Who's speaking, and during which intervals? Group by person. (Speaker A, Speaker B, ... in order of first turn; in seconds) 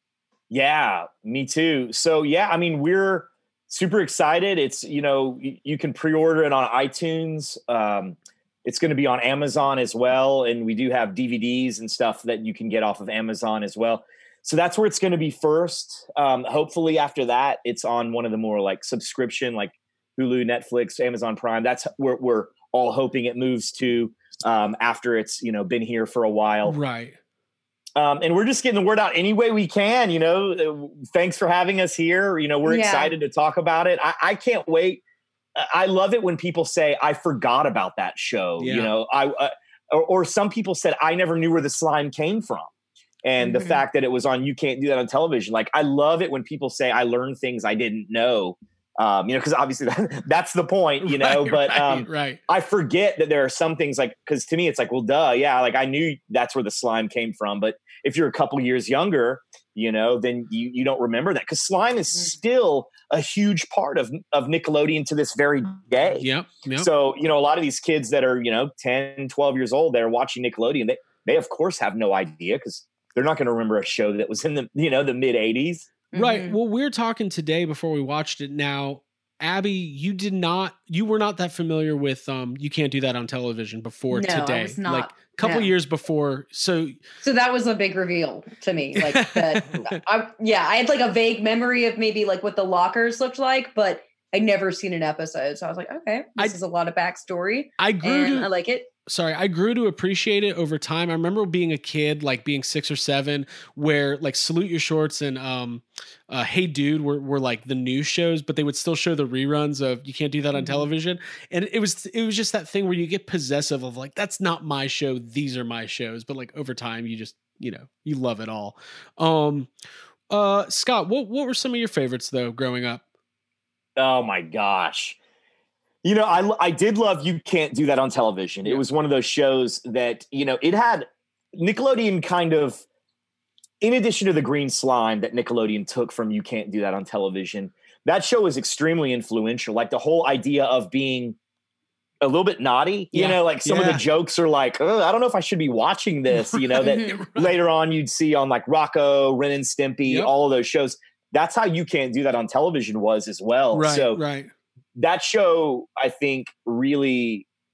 Speaker A: 0.5-26.8, 27.9-35.0, 35.5-42.7, 43.2-66.2, 66.8-75.9, 124.0-125.2, 126.0-132.8, 133.8-141.4, 142.2-154.2, 154.9-157.5
Speaker B: 26.6-27.1, 38.6-38.9, 51.0-52.4, 66.2-66.9, 76.1-87.0, 89.0-90.0, 97.8-98.5, 99.0-119.7, 120.3-123.0, 143.1-144.0, 146.3-147.5, 153.7-154.5
Speaker C: 32.6-33.1, 43.4-43.8, 76.1-76.6, 84.1-85.7, 87.2-98.9, 110.5-110.9, 146.8-147.1